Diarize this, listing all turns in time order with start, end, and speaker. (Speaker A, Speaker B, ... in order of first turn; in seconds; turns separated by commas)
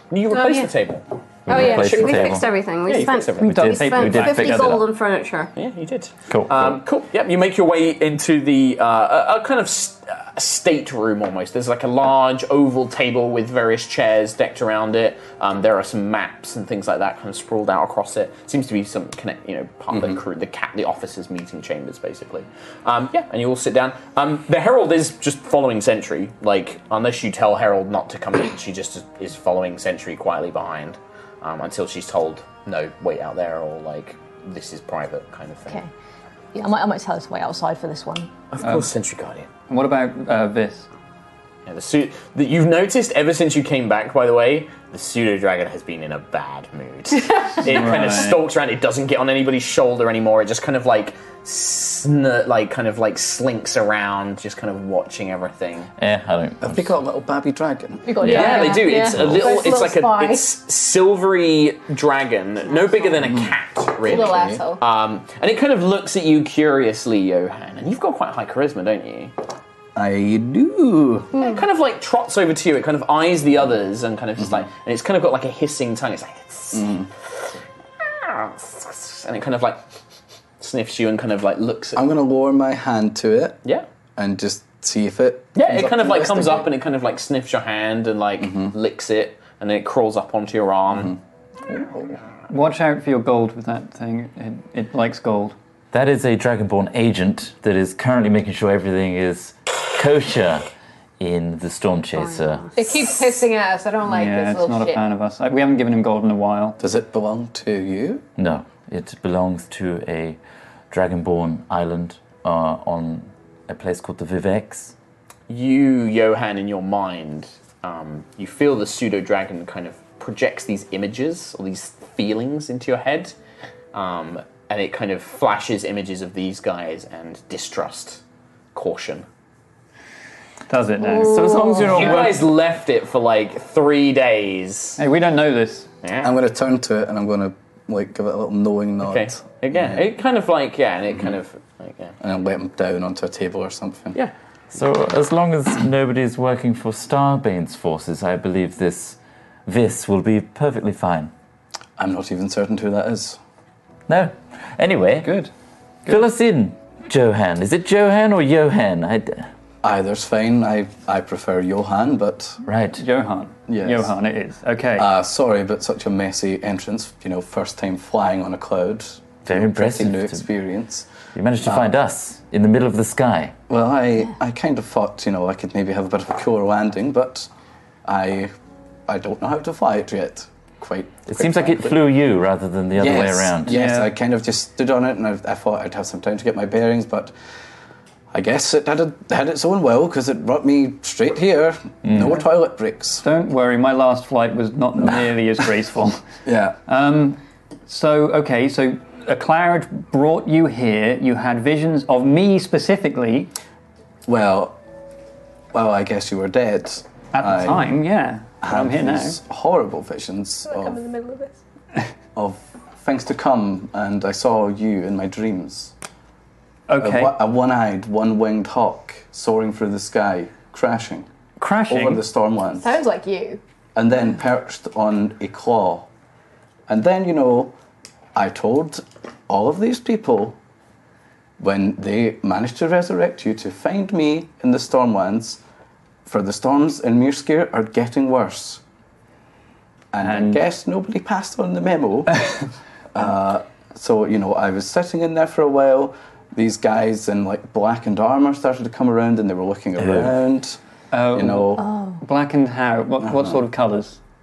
Speaker A: 0.1-3.7, Speaker B: 0.3-0.7, Speaker C: 1.5-2.5, Speaker B: 1.5-2.3, Speaker D: 1.5-5.5, Speaker E: 3.4-4.8, Speaker C: 3.4-4.9, Speaker A: 5.6-35.9, Speaker C: 6.3-6.8, Speaker F: 19.9-20.2, Speaker G: 36.5-38.3, Speaker A: 38.5-39.5, Speaker E: 39.7-40.9, Speaker A: 41.7-55.9, Speaker E: 47.6-48.4, Speaker C: 56.0-56.9, Speaker F: 56.6-58.2, Speaker B: 58.1-60.5, Speaker A: 58.2-69.3, Speaker G: 58.2-59.1, Speaker C: 58.2-59.5, Speaker F: 63.3-63.5, Speaker B: 64.0-64.8, Speaker F: 64.0-64.6, Speaker F: 70.0-71.3, Speaker A: 71.3-77.0, Speaker F: 76.7-77.1, Speaker A: 78.0-79.8, Speaker A: 80.6-82.0, Speaker F: 82.0-83.6, Speaker F: 84.2-86.7, Speaker A: 85.5-91.2, Speaker F: 88.4-88.7, Speaker F: 91.0-92.1, Speaker E: 92.5-95.6, Speaker C: 95.9-100.7, Speaker C: 101.2-102.8, Speaker B: 102.8-105.0, Speaker E: 104.0-106.8, Speaker F: 106.8-108.3, Speaker C: 108.4-110.4, Speaker C: 110.9-114.9, Speaker A: 115.5-123.3, Speaker A: 123.9-128.2, Speaker A: 128.7-129.3, Speaker E: 130.7-131.7, Speaker C: 131.2-132.4, Speaker A: 131.8-135.0, Speaker E: 135.0-135.9, Speaker A: 136.0-136.3, Speaker F: 136.2-140.0, Speaker A: 139.0-142.2, Speaker F: 142.2-144.2, Speaker C: 144.7-151.3, Speaker F: 152.0-153.4, Speaker C: 154.1-155.3, Speaker E: 155.2-155.5, Speaker C: 156.1-159.5, Speaker F: 159.8-162.6, Speaker C: 162.7-163.0, Speaker E: 163.0-165.1, Speaker F: 163.7-164.1, Speaker F: 165.0-171.1, Speaker C: 169.5-170.4, Speaker C: 171.3-173.6, Speaker F: 171.6-171.9, Speaker F: 173.7-177.5, Speaker F: 178.1-178.5, Speaker F: 179.1-182.0, Speaker C: 181.3-183.8, Speaker F: 183.0-187.3, Speaker E: 183.7-184.1, Speaker F: 188.3-193.2, Speaker C: 192.1-192.3, Speaker E: 193.2-196.2, Speaker F: 196.4-196.8, Speaker E: 196.9-203.5, Speaker F: 204.3-204.8, Speaker F: 205.7-207.9, Speaker E: 207.3-209.4, Speaker F: 208.6-211.0, Speaker B: 210.7-211.6, Speaker F: 212.4-215.9, Speaker E: 216.9-217.4, Speaker F: 217.0-221.3, Speaker E: 221.6-222.2, Speaker F: 221.9-223.0, Speaker B: 222.8-223.6, Speaker F: 223.9-226.1, Speaker F: 226.9-227.8, Speaker F: 228.3-230.6, Speaker F: 231.6-235.6, Speaker F: 236.3-238.8, Speaker F: 240.1-250.8, Speaker E: 240.2-240.6, Speaker C: 250.0-250.3, Speaker E: 251.1-254.2, Speaker F: 251.3-251.9, Speaker G: 251.8-252.2, Speaker F: 253.2-253.6